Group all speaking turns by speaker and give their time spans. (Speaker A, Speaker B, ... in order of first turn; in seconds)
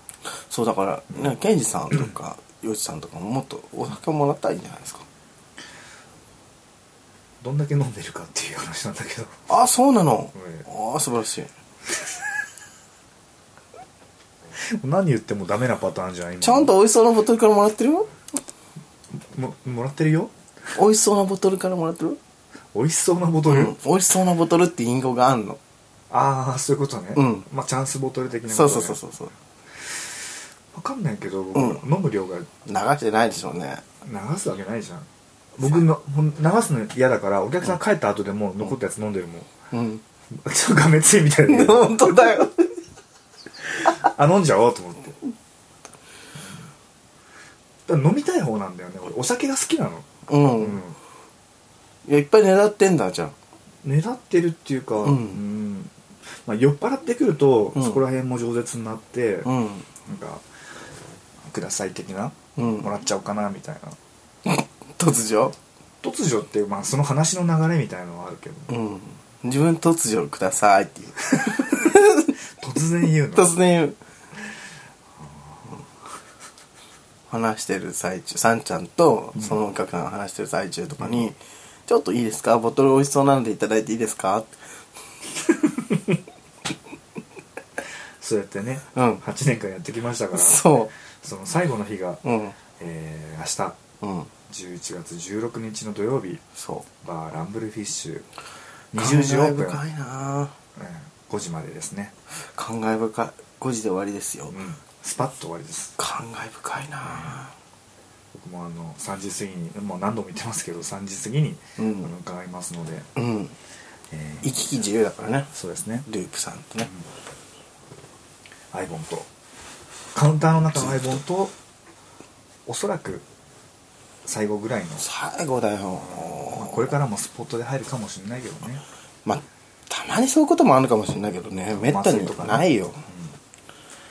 Speaker A: 0.4-5.0, 9.5-11.5, 16.4-18.1, 20.8-22.2, 23.5-25.6, 27.1-27.5, 28.5-29.3, 31.6-31.8, 32.7-33.8, 39.7-40.0, 41.5-42.7, 50.3-50.8, 52.1-53.3, 55.0-55.4, 57.8-58.0, 59.5-59.9, 62.6-62.9, 64.5-65.6, 68.7-72.3, 73.3-74.0, 77.3-84.5, 89.0-89.2, 90.3-90.9, 92.2-92.5, 94.0-94.3, 96.6-96.8, 99.0-100.5, 102.5-104.6, 106.0-107.5, 111.8-112.1, 113.2-113.5, 114.4-115.5, 116.1-116.9, 125.0-126.9, 129.3-133.0
Speaker B: 7.4-9.4, 10.4-10.7, 14.8-16.7, 19.1-20.3, 22.7-23.8, 26.1-29.0, 30.7-32.5, 34.0-39.5, 40.3-42.4, 43.8-45.2, 47.9-51.0, 53.8-55.9, 56.5-59.5, 60.1-60.5, 61.5-64.0, 66.0-68.7, 71.5-71.8, 72.6-73.6, 75.2-75.8, 81.0-81.3, 85.6-86.0, 88.2-92.2, 92.8-93.8, 94.5-96.4, 97.0-98.3, 98.9-99.8, 100.8-102.2, 104.5-106.0, 107.1-107.3, 108.3-113.1, 114.1-114.6, 115.5-116.1, 118.7-119.3, 120.1-121.5, 122.7-123.2, 124.2-125.0, 126.0-128.8, 131.7-133.3